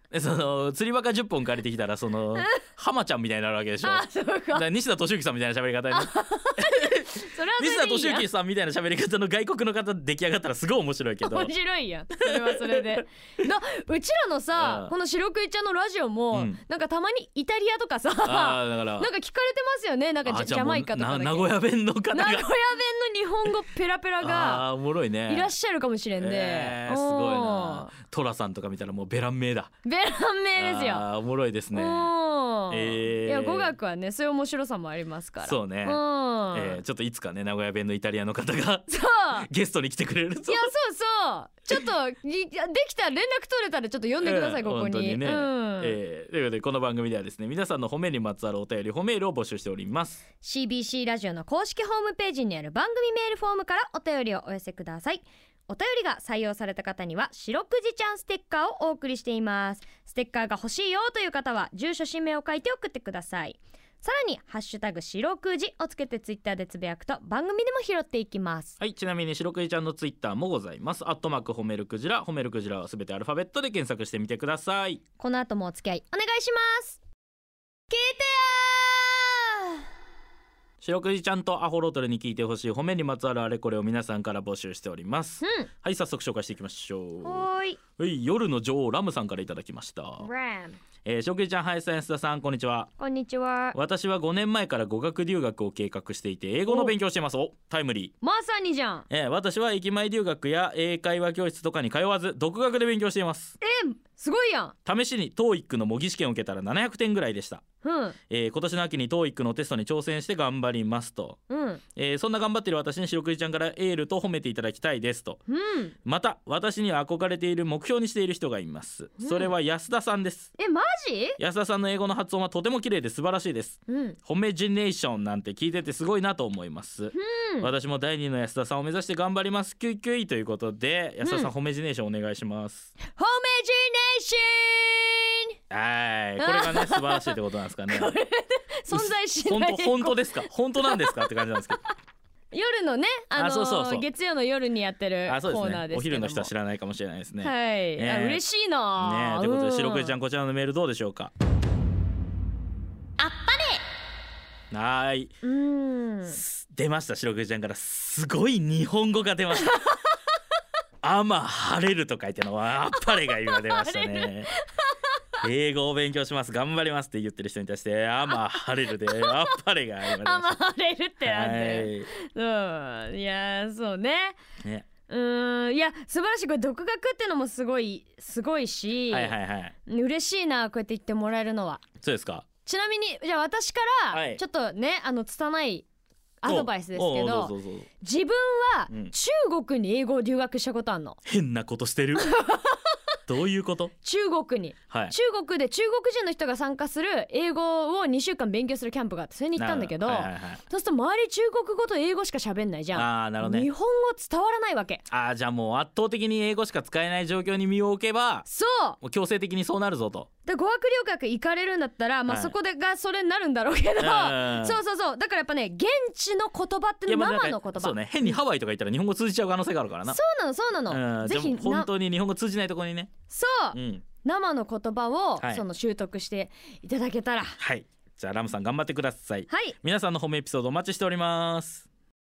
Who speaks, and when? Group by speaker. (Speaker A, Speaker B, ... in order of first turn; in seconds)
Speaker A: 0.1-11.5, 12.2-13.0, 14.5-14.9, 16.3-16.6, 18.2-19.1, 20.2-22.5, 24.2-25.5, 26.2-29.7, 30.5-32.1, 32.7-33.7, 35.4-36.0, 36.5-40.7, 44.2-50.2, 68.8-75.0, 80.8-90.3, 91.0-92.9, 93.7-98.1, 99.1-103.5, 104.8-107.6, 108.3-111.4, 112.0-115.4, 116.0-120.5, 121.4-132.9, 135.7-138.1, 138.9-141.8, 143.3-144.1, 145.2-148.4, 149.0-151.3, 154.7-155.3, 156.3-159.8, 161.0-164.5, 165.4-170.6, 171.2-172.1, 179.1-179.7, 182.0-182.4, 184.1-184.4, 186.4-187.9, 191.2-192.3, 193.3-193.9, 199.6-200.6, 202.9-203.7, 205.1-208.4, 209.0-210.3, 212.3-212.5, 214.0-214.8, 217.1-220.2, 220.9-223.1, 223.7-224.0, 227.6-231.8
Speaker B: 3.8-4.7, 5.9-8.3, 11.2-21.5, 22.1-24.7, 25.2-27.9, 29.8-31.1, 31.7-36.8, 38.9-39.5, 40.5-46.0, 50.4-68.8, 75.2-77.0, 77.9-79.8, 85.4-85.7, 87.2-87.8, 90.2-90.8, 93.0-93.8, 96.7-96.9, 98.2-99.1, 103.6-104.7, 107.8-108.2, 111.5-111.8, 115.5-115.9, 119.2-119.5, 120.6-121.4, 123.9-124.2, 127.1-127.7, 131.2-131.5, 133.1-135.6, 136.4-137.4, 137.9-141.9, 142.5-146.5, 147.4-150.1, 153.2-153.8, 155.4-156.4, 159.6-160.0, 163.0-165.2, 168.9-174.4, 175.1-181.8, 182.6-185.8, 186.4-191.2, 192.2-192.8, 194.0-205.0, 208.4-209.0, 210.4-218.4, 220.1-221.9, 223.3-227.6, 229.5-229.8